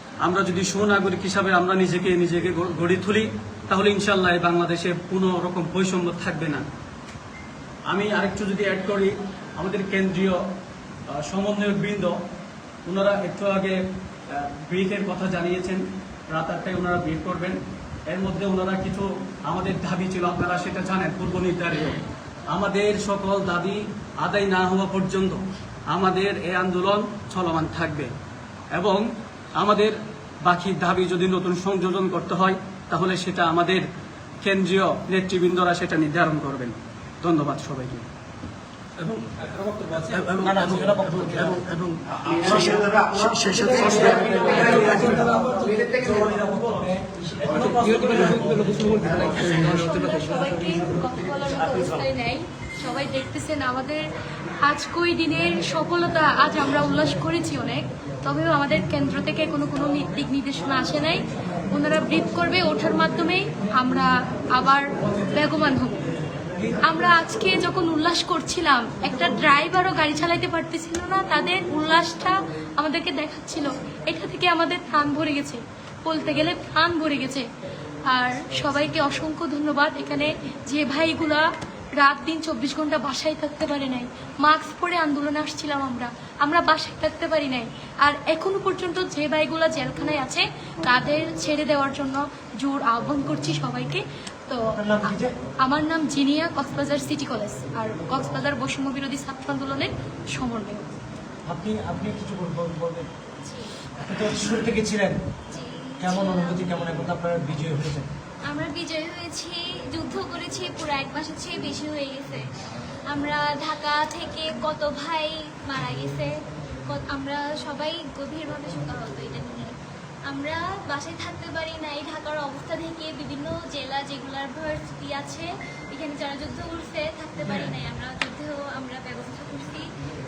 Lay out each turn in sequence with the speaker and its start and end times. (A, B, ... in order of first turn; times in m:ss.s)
0:00.2-0:06.6 A
0:07.9-0:10.4 A
0:11.3-0:12.2 A
0:12.8-0:13.8 A
0:14.3-0:22.0 A
0:22.5-0:25.4 A
0:25.9-0:28.1 A
0:28.8-0:29.1 A
0:29.6-0:33.8 A
0:34.4-0:38.1 A
0:40.0-0:45.4 B
0:40.5-0:41.2 C
0:44.0-0:44.9 C
0:45.5-0:46.2 C
0:47.8-0:49.1 C
0:49.0-0:54.0 D
0:54.6-1:01.2 D
1:01.7-1:06.0 D
1:06.8-1:17.4 D
1:18.1-1:21.4 D
1:22.0-1:40.9 D
1:34.8-1:35.3 C
1:41.5-1:43.1 C
1:43.4-1:43.8 E
1:44.0-1:45.2 C
1:45.5-1:46.8 E
1:46.0-1:48.1 C
1:48.5-1:52.5 E
1:53.1-1:56.3 E
1:56.9-1:59.7 E
2:00.3-2:09.9 E